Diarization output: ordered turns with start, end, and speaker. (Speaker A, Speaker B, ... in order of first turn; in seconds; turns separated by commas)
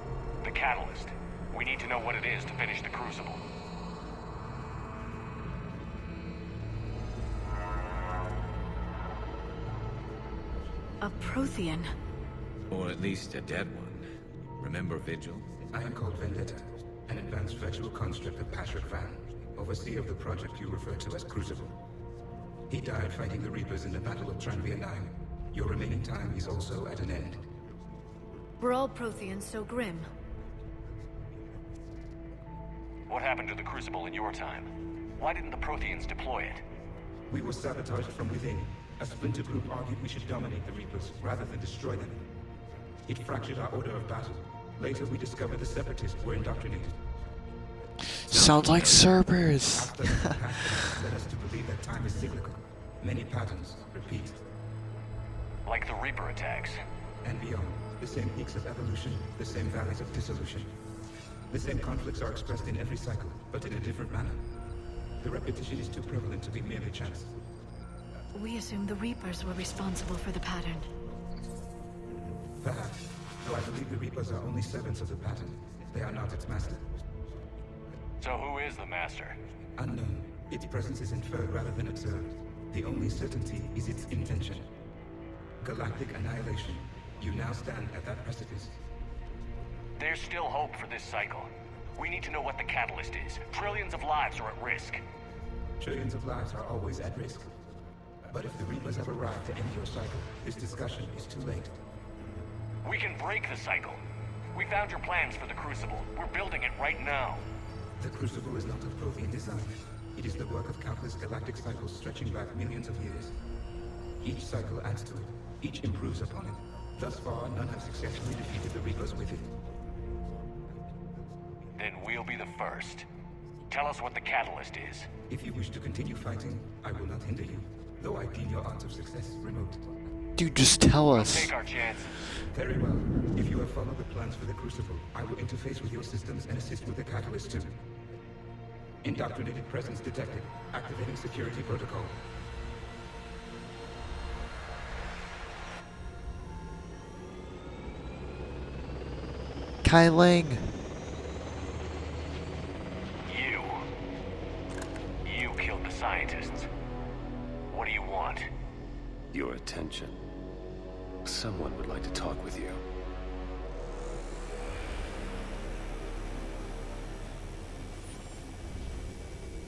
Speaker A: 0.4-3.4, Speaker B: 11.0-11.9, Speaker C: 12.7-14.1, Speaker C: 14.6-15.5, Speaker D: 15.7-21.8, Speaker D: 22.7-27.5, Speaker B: 28.6-30.1, Speaker A: 33.1-36.6, Speaker D: 37.3-42.3, Speaker D: 43.1-47.0, Speaker E: 48.3-50.4, Speaker C: 48.3-49.1, Speaker D: 49.7-54.4, Speaker A: 55.7-56.8, Speaker D: 57.2-60.7, Speaker D: 61.5-64.4, Speaker D: 65.2-67.3, Speaker B: 68.3-70.9, Speaker D: 72.6-76.8, Speaker A: 78.2-79.4, Speaker D: 79.8-84.7, Speaker D: 85.6-88.8, Speaker A: 90.0-95.0, Speaker D: 95.8-97.5, Speaker D: 98.3-101.8, Speaker A: 102.8-104.0, Speaker A: 104.5-107.5, Speaker D: 108.0-113.4, Speaker D: 114.2-119.5, Speaker A: 121.8-123.1, Speaker A: 123.7-125.1, Speaker D: 125.3-129.9, Speaker E: 130.4-131.6, Speaker A: 131.1-132.2, Speaker D: 132.5-137.8, Speaker D: 139.0-142.2, Speaker E: 149.8-150.8, Speaker A: 153.3-153.8, Speaker A: 155.2-156.7, Speaker A: 157.7-158.5, Speaker F: 159.3-160.2, Speaker F: 161.2-162.8